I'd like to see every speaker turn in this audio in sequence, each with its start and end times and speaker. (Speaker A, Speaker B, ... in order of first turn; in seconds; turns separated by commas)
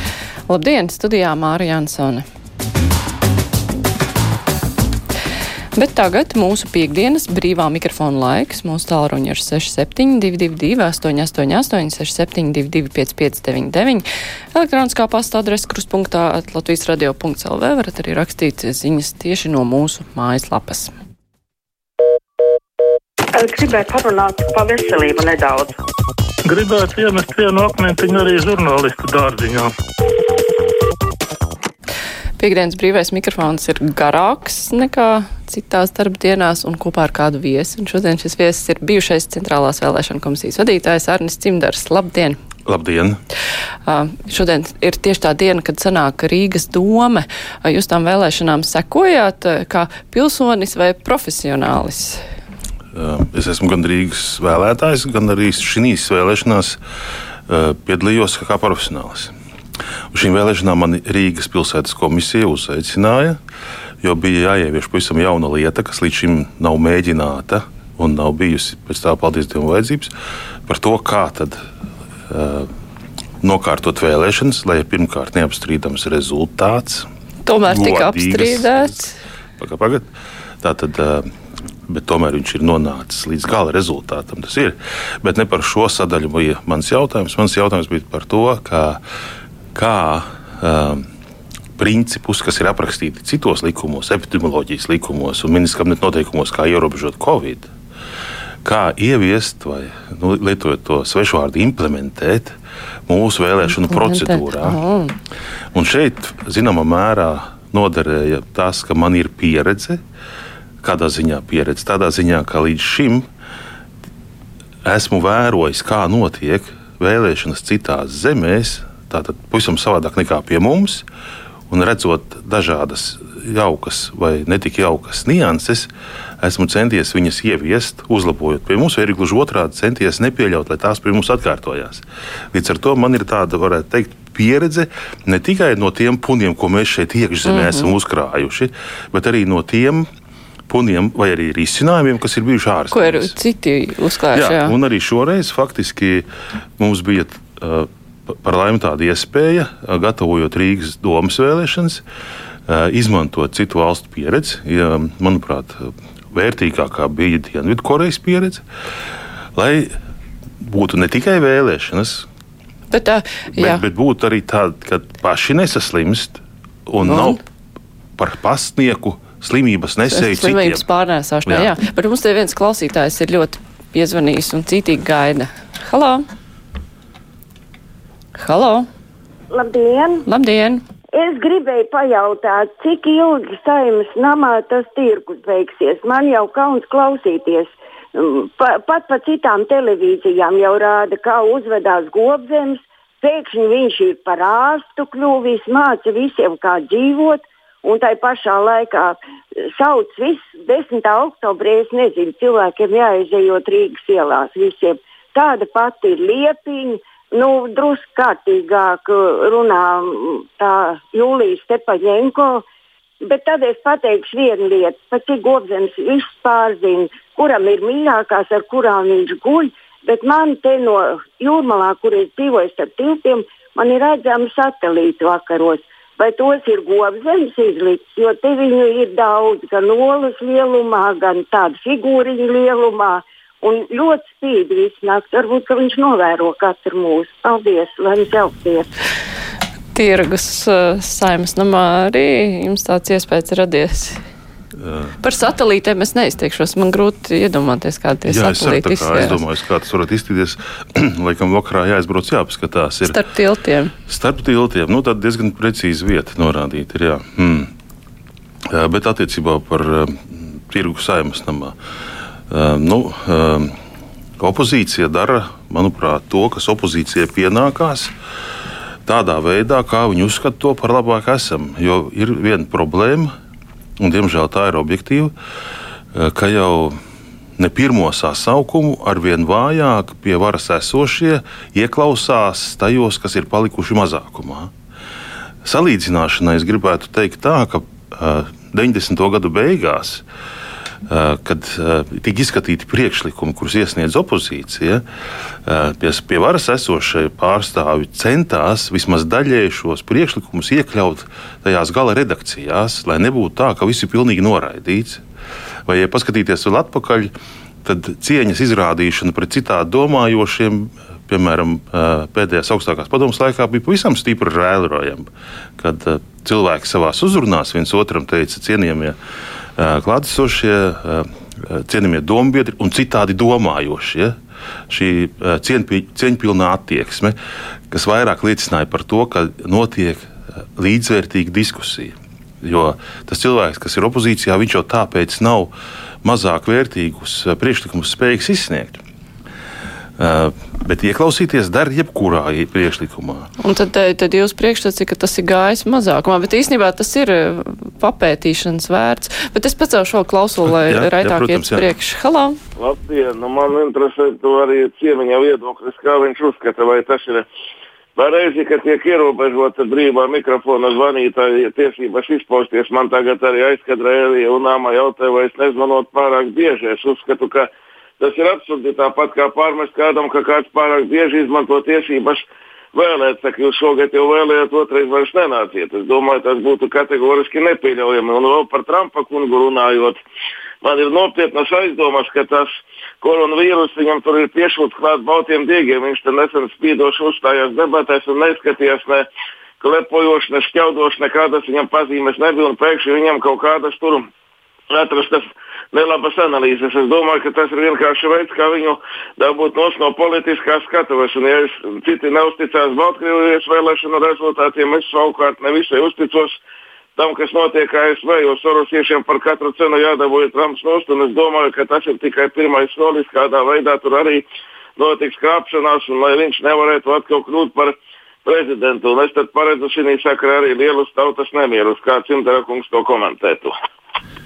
Speaker A: 0.5-2.2, Speaker A: 5.8-20.9, Speaker B: 23.3-25.8, Speaker C: 26.4-29.7, Speaker A: 32.4-42.4, Speaker D: 42.7-43.2, Speaker A: 43.9-52.2, Speaker D: 52.9-56.8, Speaker D: 57.5-59.3, Speaker D: 60.1-63.4, Speaker D: 64.0-70.1, Speaker D: 70.7-71.6, Speaker D: 72.3-72.7, Speaker D: 73.4-77.1, Speaker A: 77.5-79.2, Speaker D: 77.6-79.0, Speaker D: 79.6-80.1, Speaker D: 80.6-81.3, Speaker D: 81.9-89.0, Speaker D: 89.7-91.0, Speaker D: 91.8-97.7, Speaker D: 98.6-102.5, Speaker D: 103.1-104.8, Speaker A: 103.6-105.1, Speaker D: 105.7-110.0, Speaker D: 110.8-113.3, Speaker D: 114.8-121.0, Speaker D: 121.7-125.9, Speaker D: 126.4-140.1, Speaker A: 137.4-137.9, Speaker D: 140.7-143.3, Speaker A: 142.9-144.7, Speaker D: 144.3-146.2, Speaker D: 146.8-152.0, Speaker D: 152.7-158.6, Speaker D: 159.6-159.9, Speaker D: 160.6-162.2, Speaker A: 162.9-163.8, Speaker D: 163.5-167.4, Speaker A: 167.0-167.4, Speaker D: 168.2-170.8, Speaker A: 170.1-176.2, Speaker D: 171.4-171.7, Speaker A: 178.3-178.9, Speaker E: 179.5-180.2, Speaker A: 180.3-180.8, Speaker E: 181.1-212.6, Speaker E: 213.2-238.9, Speaker A: 239.9-244.2, Speaker D: 244.8-245.1, Speaker A: 245.2-249.4, Speaker D: 248.3-253.2, Speaker A: 253.0-253.9, Speaker D: 254.1-257.7, Speaker D: 258.7-261.7, Speaker D: 262.5-263.8, Speaker D: 264.4-268.1, Speaker D: 269.1-273.3, Speaker D: 274.0-275.3, Speaker D: 276.1-277.0, Speaker D: 277.6-284.7, Speaker D: 285.6-290.2, Speaker D: 291.1-295.0, Speaker D: 295.6-305.2, Speaker D: 305.9-307.3, Speaker D: 307.8-319.1, Speaker D: 319.8-324.4, Speaker D: 324.9-327.4, Speaker D: 327.9-335.7, Speaker D: 336.2-339.0, Speaker D: 340.2-343.5, Speaker A: 343.6-352.6, Speaker D: 350.7-351.9, Speaker F: 352.8-357.5, Speaker F: 358.1-380.2, Speaker F: 380.8-389.2, Speaker F: 389.8-394.3, Speaker F: 394.9-406.6, Speaker F: 407.1-414.4, Speaker F: 415.0-423.7